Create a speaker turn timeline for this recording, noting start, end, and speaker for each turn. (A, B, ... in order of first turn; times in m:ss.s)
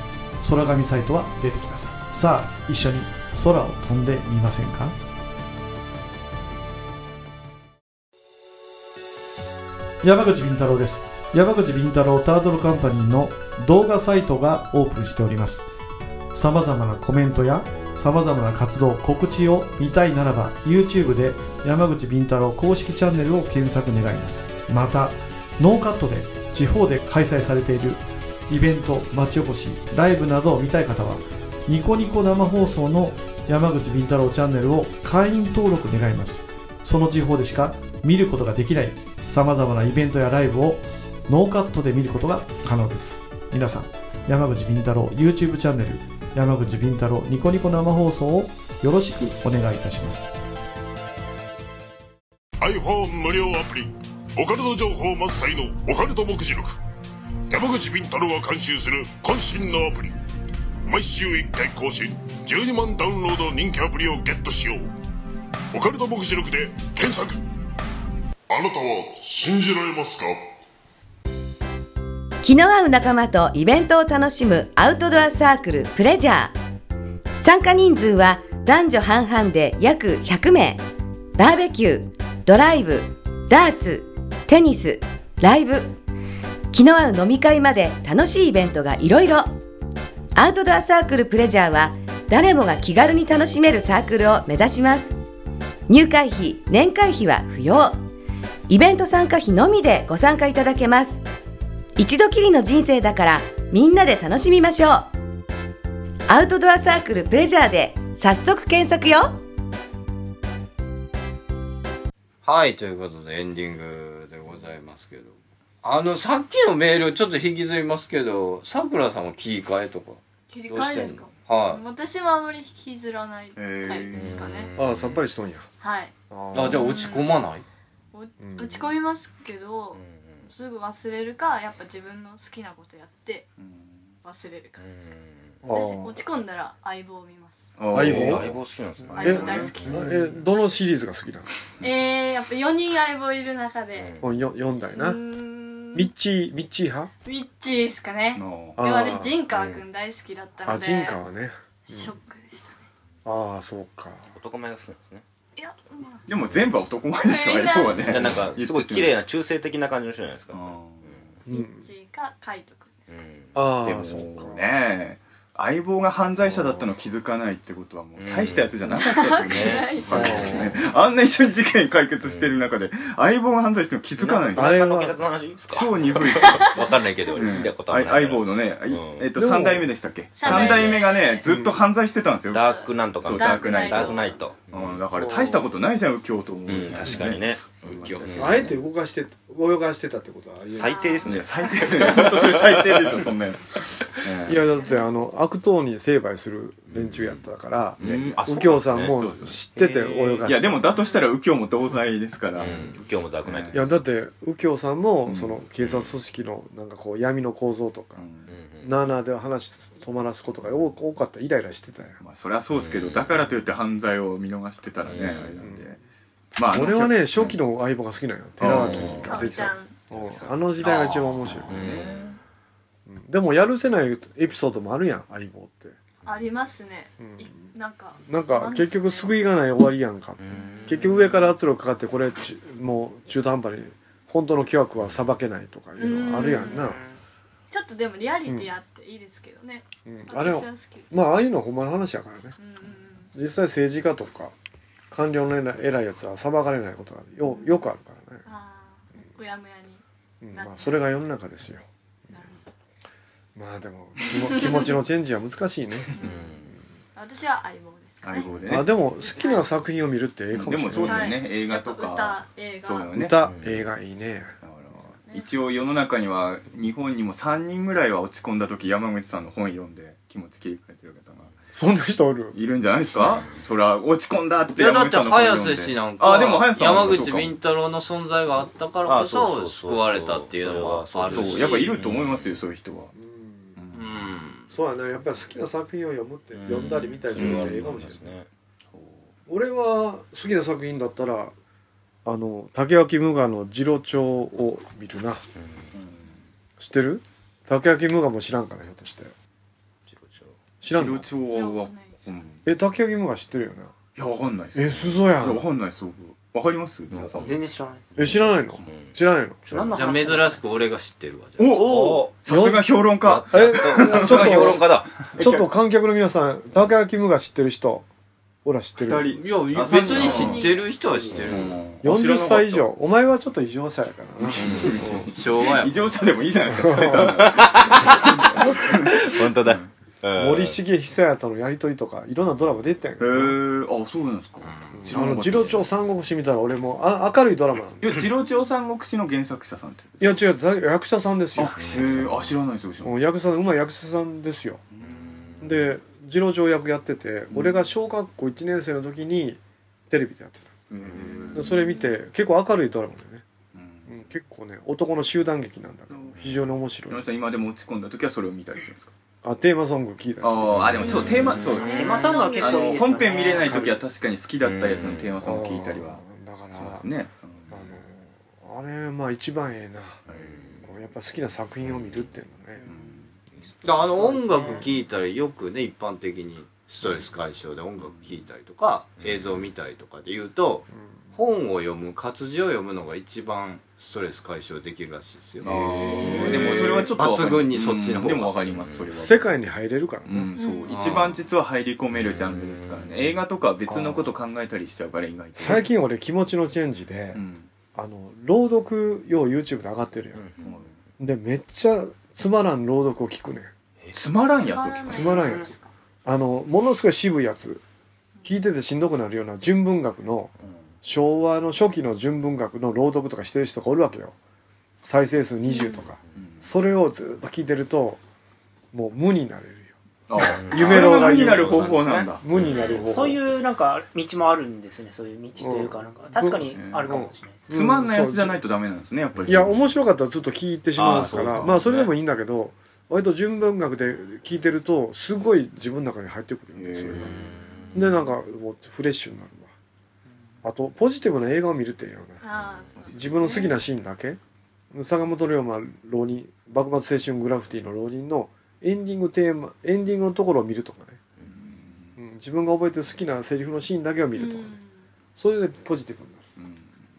0:00.4-0:04.9 A
0:10.0-0:15.6 A
0:16.3-0:50.3 A
0:52.6-0:56.8 B
0:57.5-1:00.1 B
1:00.8-1:04.9 B
1:05.7-1:07.4 B
1:08.5-1:10.5 B
1:12.4-1:16.5 C
1:17.4-1:20.8 C
1:21.4-1:25.9 C
1:26.7-1:29.5 C
1:30.3-1:35.1 C
1:35.9-1:38.0 C
1:38.7-1:41.2 C
1:42.0-1:45.1 C
1:46.3-1:49.4 C
1:52.4-2:01.8 D
2:00.5-2:04.7 E
2:03.6-2:04.4 F
2:04.1-2:05.2 G
2:04.8-2:05.7 H
2:05.8-2:07.3 E
2:06.3-2:06.8 H
2:06.5-2:07.6 D
2:08.1-2:13.5 E
2:08.4-2:08.9 H
2:09.9-2:10.5 G
2:13.6-2:14.0 F
2:14.2-2:15.1 E
2:14.8-2:15.6 G
2:15.6-2:16.2 H
2:15.7-2:17.7 E
2:17.8-2:19.9 F
2:17.9-2:20.3 G
2:17.9-2:18.6 H
2:19.1-2:20.1 E
2:19.2-2:21.5 H
2:21.8-2:24.1 E
2:23.9-2:24.3 G
2:24.2-2:25.2 H
2:24.9-2:26.1 E
2:25.9-2:27.1 H
2:27.2-2:31.2 E
2:28.4-2:28.8 F
2:28.8-2:29.4 H
2:29.5-2:29.8 G
2:30.6-2:32.1 H
2:31.9-2:32.8 E
2:33.2-2:34.3 H
2:34.3-2:35.2 G
2:35.6-2:36.3 E
2:36.3-2:39.2 F
2:37.2-2:38.2 E
2:38.0-2:41.4 G
2:40.5-2:41.3 F
2:41.5-2:41.9 H
2:41.5-2:43.1 E
2:43.1-2:43.6 G
2:43.5-2:44.6 H
2:43.8-2:55.0 F
2:48.2-2:48.8 G
2:48.9-2:50.7 E
2:49.4-2:50.7 G
2:50.1-2:50.7 H
2:52.2-2:52.5 G
2:54.2-2:59.3 G
2:54.5-2:55.2 H
2:55.7-2:56.8 F
2:56.4-2:56.8 E
2:57.3-3:08.6 F
2:59.3-2:59.9 H
3:00.4-3:01.4 E
3:00.4-3:01.0 G
3:01.5-3:01.8 H
3:02.5-3:05.5 G
3:02.6-3:04.4 E
3:05.2-3:05.6 H
3:06.6-3:08.7 G
3:08.0-3:08.7 D
3:08.4-3:11.0 H
3:10.7-3:13.3 G
3:10.8-3:12.2 E
3:11.2-3:14.6 F
3:14.4-3:20.8 H
3:14.8-3:15.0 E
3:16.9-3:17.4 G
3:18.0-3:19.4 G
3:18.0-3:23.8 F
3:20.8-3:21.2 E
3:22.6-3:23.9 G
3:23.7-3:28.2 H
3:25.3-3:25.6 F
3:28.2-3:28.5 F
3:28.5-3:28.9 G
3:28.8-3:32.2 H
3:32.2-3:36.0 F
3:32.7-3:33.4 G
3:35.0-3:35.7 G
3:35.6-3:35.9 H
3:36.6-3:37.6 F
3:36.7-3:41.9 H
3:38.6-3:39.5 F
3:38.6-3:39.3 G
3:39.2-3:40.0 E
3:40.1-3:42.4 F
3:41.6-3:42.3 G
3:43.1-3:46.0 H
3:46.2-3:49.3 E
3:47.2-3:47.7 H
3:48.3-3:57.0 H
3:50.4-3:51.2 G
3:56.0-3:57.0 E
3:57.7-4:01.1 E
3:58.4-3:58.7 H
4:00.0-4:02.6 H
4:02.6-4:03.3 E
4:03.3-4:04.5 H
4:05.1-4:08.4 H
4:07.4-4:07.8 E
4:08.4-4:10.0 E
4:10.4-4:12.4 H
4:10.5-4:11.0 E
4:12.3-4:12.6 E
4:13.6-4:16.2 H
4:14.5-4:14.9 E
4:16.2-4:16.8 G
4:17.2-4:18.5 E
4:18.2-4:18.9 F
4:18.7-4:21.4 H
4:19.2-4:19.7 E
4:20.5-4:23.4 F
4:21.0-4:23.1 E
4:23.1-4:24.6 H
4:23.4-4:23.8 G
4:24.6-4:31.5 F
4:31.7-4:32.6 H
4:32.5-4:37.5 F
4:33.2-4:33.6 G
4:34.7-4:41.9 D
4:39.0-4:42.5 G
4:41.3-4:43.1 F
4:43.1-4:43.8 H
4:43.8-4:44.2 F
4:43.9-4:44.6 D
4:44.7-4:48.3 H
4:46.6-4:48.5 G
4:47.4-4:47.7 F
4:48.9-4:49.3 F
4:49.5-4:51.5 H
4:52.2-4:55.4 H
4:55.6-4:55.9 G
4:55.9-4:56.4 F
4:56.8-4:59.3 H
5:00.1-5:00.5 G
5:00.8-5:01.3 H
5:00.9-5:02.6 F
5:01.5-5:02.3 E
5:02.6-5:03.9 H
5:04.2-5:07.5 F
5:04.7-5:05.7 H
5:07.1-5:07.5 G
5:07.4-5:08.4 I
5:08.2-5:09.6 H
5:08.2-5:10.3 G
5:09.7-5:10.6 I
5:09.9-5:11.8 D
5:11.6-5:15.7 F
5:11.7-5:12.2 I
5:11.7-5:12.4 G
5:12.4-5:14.8 H
5:13.2-5:15.4 G
5:15.4-5:18.0 H
5:18.6-5:19.3 H
5:19.0-5:20.8 F
5:19.3-5:21.8 D
5:19.7-5:20.5 G
5:20.0-5:20.9 E
5:21.3-5:21.6 G
5:21.3-5:22.9 F
5:22.0-5:24.9 H
5:24.4-5:29.9 F
5:24.5-5:25.2 G
5:24.9-5:26.1 D
5:26.7-5:27.5 H
5:27.1-5:30.8 G
5:28.6-5:29.0 H
5:30.4-5:33.6 H
5:33.2-5:35.8 F
5:34.6-5:35.0 D
5:35.0-5:38.2 H
5:38.0-5:40.4 F
5:40.2-5:42.3 H
5:41.6-5:43.1 F
5:41.8-5:42.5 G
5:43.0-5:44.8 H
5:44.9-5:45.6 F
5:45.2-5:45.8 G
5:45.6-5:50.7 H
5:47.5-5:47.8 F
5:50.9-5:51.7 F
5:51.5-5:52.2 E
5:51.5-5:53.4 H
5:53.7-5:54.1 F
5:54.1-5:57.3 H
5:56.1-5:56.5 F
5:57.1-5:59.1 F
5:59.4-6:01.5 H
6:00.4-6:06.2 F
6:01.0-6:03.3 E
6:01.0-6:01.8 G
6:01.8-6:03.9 I
6:03.6-6:03.9 H
6:04.6-6:05.4 G
6:05.4-6:07.1 H
6:06.7-6:08.0 F
6:07.7-6:10.2 H
6:10.3-6:10.6 F
6:10.4-6:10.9 G
6:10.8-6:13.0 H
6:12.8-6:13.4 F
6:13.8-6:28.6 D
6:14.2-6:14.9 H
6:18.0-6:18.3 F
6:19.2-6:19.6 G
6:20.9-6:21.3 H
6:25.6-6:29.5 F
6:26.1-6:26.8 G
6:28.8-6:29.1 G
6:29.1-6:30.5 H
6:30.2-6:35.9 F
6:30.6-6:31.2 E
6:30.9-6:31.4 D
6:32.2-6:33.3 G
6:33.9-6:34.3 H
6:35.6-6:37.4 H
6:37.3-6:37.7 F
6:37.9-6:40.4 H
6:40.3-6:40.6 G
6:40.6-6:40.9 F
6:41.2-6:43.7 H
6:44.1-6:45.5 F
6:44.5-6:45.9 E
6:45.1-6:45.7 H
6:46.2-6:47.8 H
6:48.4-6:50.5 H
6:50.6-6:50.9 F
6:51.0-6:54.3 H
6:55.0-6:58.2 H
6:55.6-6:56.0 E
6:56.3-6:56.7 F
6:58.9-6:59.9 H
7:00.3-7:02.4 F
7:00.4-7:02.3 G
7:00.7-7:03.4 H
7:02.6-7:03.0 E
7:02.9-7:07.7 I
7:05.6-7:08.6 H
7:06.7-7:07.2 F
7:07.7-7:09.8 F
7:09.4-7:09.6 G
7:09.5-7:17.3 H
7:11.0-7:12.1 G
7:11.3-7:11.7 F
7:16.7-7:17.4 F
7:17.1-7:18.1 G
7:17.9-7:19.7 H
7:20.6-7:22.4 H
7:22.4-7:23.8 E
7:23.0-7:23.6 F
7:23.1-7:24.4 H
7:24.9-7:31.2 H
7:31.4-7:32.1 F
7:32.2-7:34.8 H
7:34.4-7:35.0 E
7:35.4-7:36.4 H
7:36.6-7:37.0 F